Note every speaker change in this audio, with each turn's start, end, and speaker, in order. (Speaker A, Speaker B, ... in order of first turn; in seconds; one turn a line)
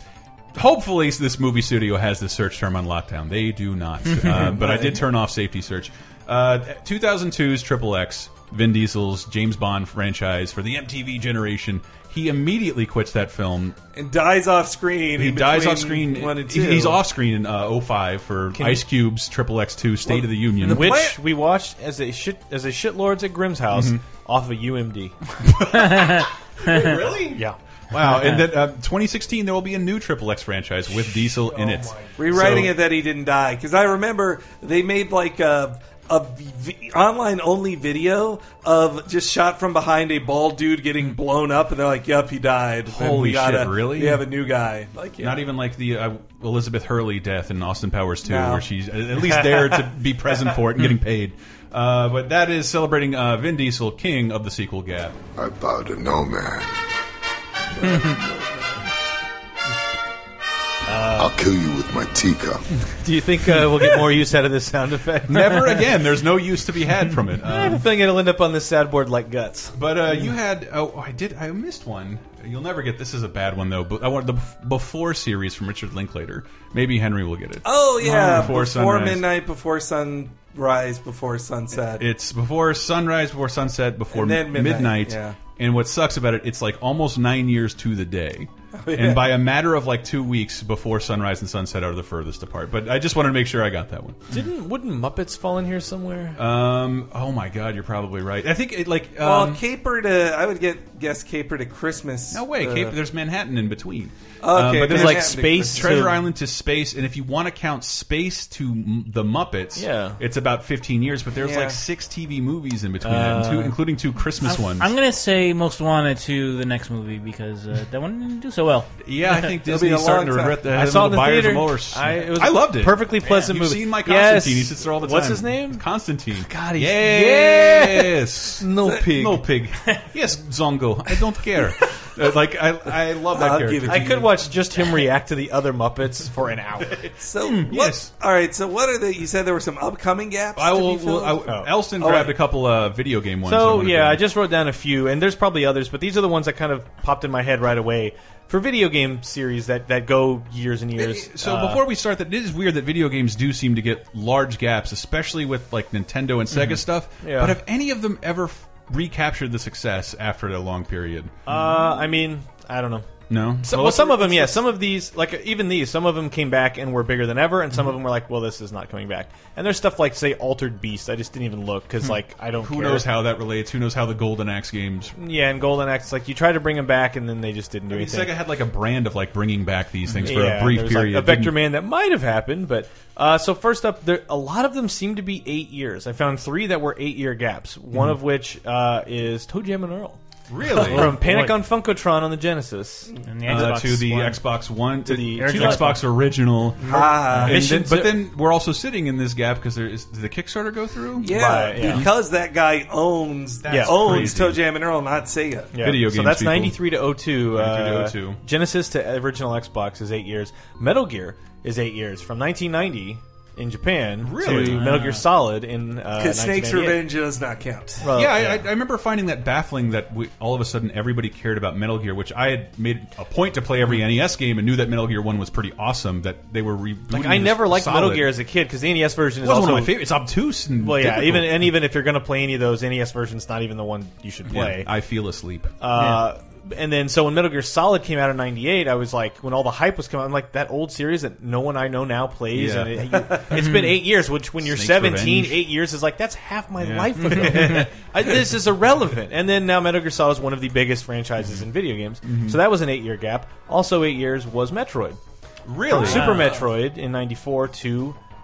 Speaker A: 0.5-13.8
Speaker B: 4.5-5.0
Speaker B: 13.9-17.0
Speaker A: 15.2-21.0
Speaker C: 18.5-18.8
Speaker B: 20.1-21.2
Speaker C: 20.6-25.1
Speaker A: 23.7-24.0
Speaker A: 25.4-32.7
Speaker D: 25.8-26.9
Speaker C: 31.4-32.6
Speaker B: 32.2-45.4
Speaker A: 42.9-44.2
Speaker A: 45.2-55.1
Speaker B: 48.2-48.6
Speaker E: 55.4-56.7
Speaker B: 57.7-58.9
Speaker C: 60.9-61.3
Speaker E: 61.1-62.6
Speaker C: 62.8-65.8
Speaker A: 65.3-67.8
Speaker C: 67.4-70.3
Speaker A: 69.7-79.2
Speaker B: 77.6-82.1
Speaker A: 82.0-94.4
Speaker B: 84.1-85.4
Speaker B: 88.8-89.3
Speaker C: 94.3-96.4
Speaker A: 96.4-99.6
Speaker B: 99.2-103.0
Speaker A: 102.3-114.9
Speaker B: 104.4-106.1
Speaker C: 104.8-106.2
Speaker C: 109.8-110.2
Speaker B: 111.3-111.8
Speaker C: 113.0-113.8
Speaker D: 114.4-118.9
Speaker A: 119.0-134.3
Speaker B: 119.6-120.6
Speaker C: 120.7-129.4
Speaker B: 133.3-134.3
Speaker C: 133.9-137.1
Speaker B: 137.2-141.5
Speaker A: 137.4-138.1
Speaker A: 140.6-144.2
Speaker B: 142.0-142.3
Speaker C: 143.4-151.8
Speaker A: 150.9-161.3
Speaker C: 157.2-157.6
Speaker C: 161.5-163.1
Speaker A: 163.3-164.7
Speaker C: 163.6-173.1
Speaker A: 172.6-175.2
Speaker C: 175.2-178.3
Speaker A: 177.9-181.6
Speaker C: 180.2-190.2
Speaker A: 190.5-191.2
Speaker C: 190.8-193.1
Speaker D: 190.9-191.6
Speaker D: 193.2-194.4
Speaker A: 193.5-202.1
Speaker C: 195.0-196.0
Speaker D: 195.3-196.0
Speaker C: 196.8-198.2
Speaker B: 196.8-197.6
Speaker B: 201.2-205.7
Speaker C: 201.3-202.1
Speaker A: 203.6-204.6
Speaker C: 203.7-204.3
Speaker C: 205.7-217.0
Speaker A: 205.8-206.8
Speaker A: 207.4-208.4
Speaker A: 214.2-215.0
Speaker D: 214.6-215.2
Speaker B: 216.2-218.0
Speaker C: 218.0-218.7
Speaker A: 218.1-228.3
Speaker C: 227.1-230.1
Speaker A: 229.4-231.7
Speaker C: 230.8-234.9
Speaker A: 234.5-235.8
Speaker C: 235.8-255.2
Speaker D: 236.0-236.2
Speaker A: 242.5-243.8
Speaker A: 244.6-245.7
Speaker A: 246.8-247.9
Speaker A: 252.2-252.6
Speaker A: 255.7-256.3
Speaker C: 255.9-258.2
Speaker D: 256.0-256.6